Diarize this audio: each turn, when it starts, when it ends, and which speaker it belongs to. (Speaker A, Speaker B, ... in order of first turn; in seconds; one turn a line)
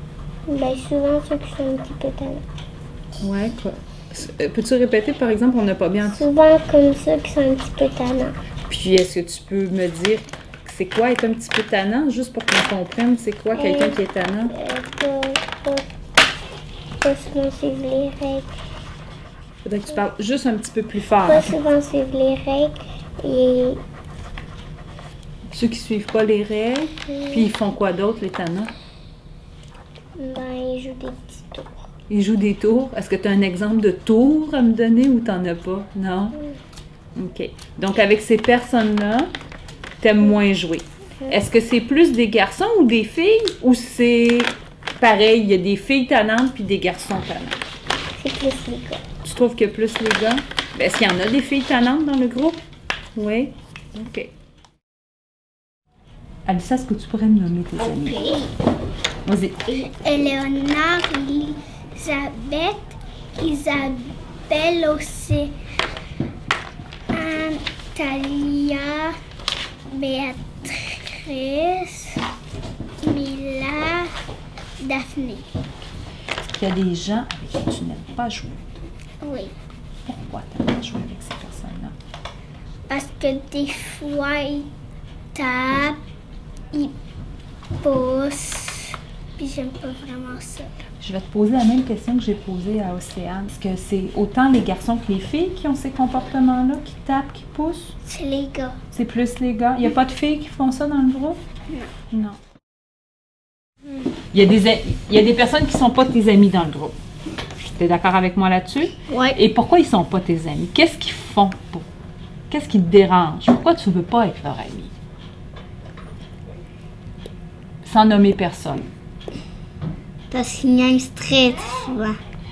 Speaker A: 0.5-2.4
Speaker B: 3.2-6.2
Speaker A: 6.1-8.3
Speaker B: 8.7-14.6
Speaker A: 13.5-15.8
Speaker A: 17.0-18.5
Speaker B: 19.6-21.6
Speaker A: 21.3-23.8
Speaker B: 25.5-28.7
Speaker A: 27.1-27.5
Speaker A: 30.2-31.7
Speaker B: 32.1-36.4
Speaker B: 37.2-39.3
Speaker B: 40.0-47.6
Speaker A: 48.2-49.0
Speaker B: 49.2-52.6
Speaker B: 53.2-54.3
Speaker B: 56.5-58.4
Speaker A: 57.8-58.5
Speaker B: 59.2-59.7
Speaker A: 59.7-65.5
Speaker A: 67.1-69.2
Speaker A: 69.9-72.2
Speaker A: 73.0-74.1
Speaker A: 74.8-75.5
Speaker B: 76.5-78.6
Speaker A: 79.2-79.5
Speaker B: 80.1-82.0
Speaker A: 82.9-84.7
Speaker A: 85.3-86.0
Speaker A: 87.8-90.7
Speaker B: 91.0-98.0
Speaker A: 98.0-98.8
Speaker B: 98.9-101.4
Speaker B: 102.1-102.4
Speaker B: 104.3-107.0
Speaker B: 107.6-111.9
Speaker A: 109.1-109.4
Speaker B: 112.5-114.9
Speaker B: 117.8-118.9
Speaker A: 120.3-122.2